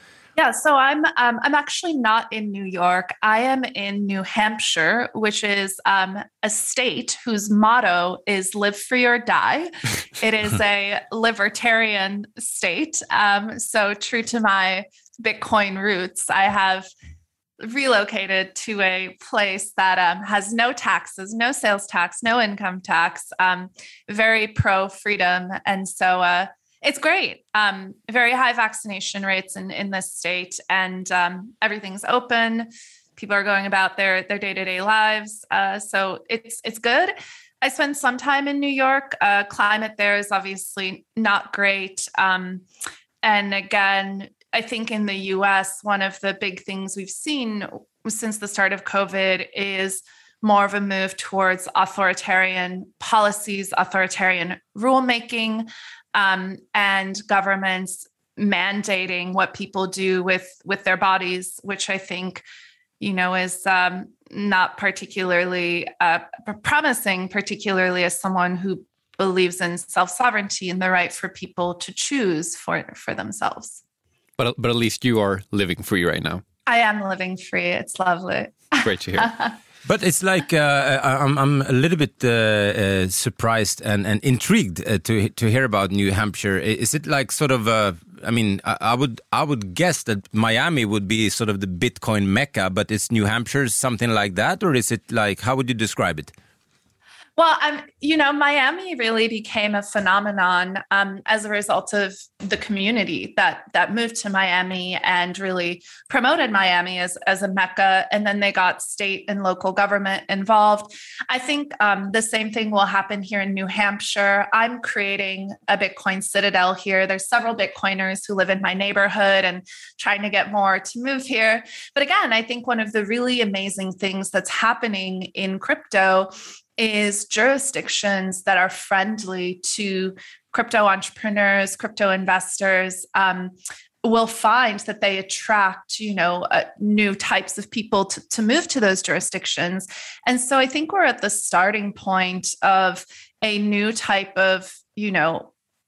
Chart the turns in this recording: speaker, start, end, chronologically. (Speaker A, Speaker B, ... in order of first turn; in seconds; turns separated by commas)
Speaker A: 0.4-16.9, Speaker A: 17.6-42.6, Speaker A: 43.2-62.4, Speaker A: 63.0-73.8, Speaker B: 74.4-76.4, Speaker A: 76.7-79.5, Speaker B: 78.8-79.3, Speaker C: 79.8-96.3, Speaker A: 97.4-145.5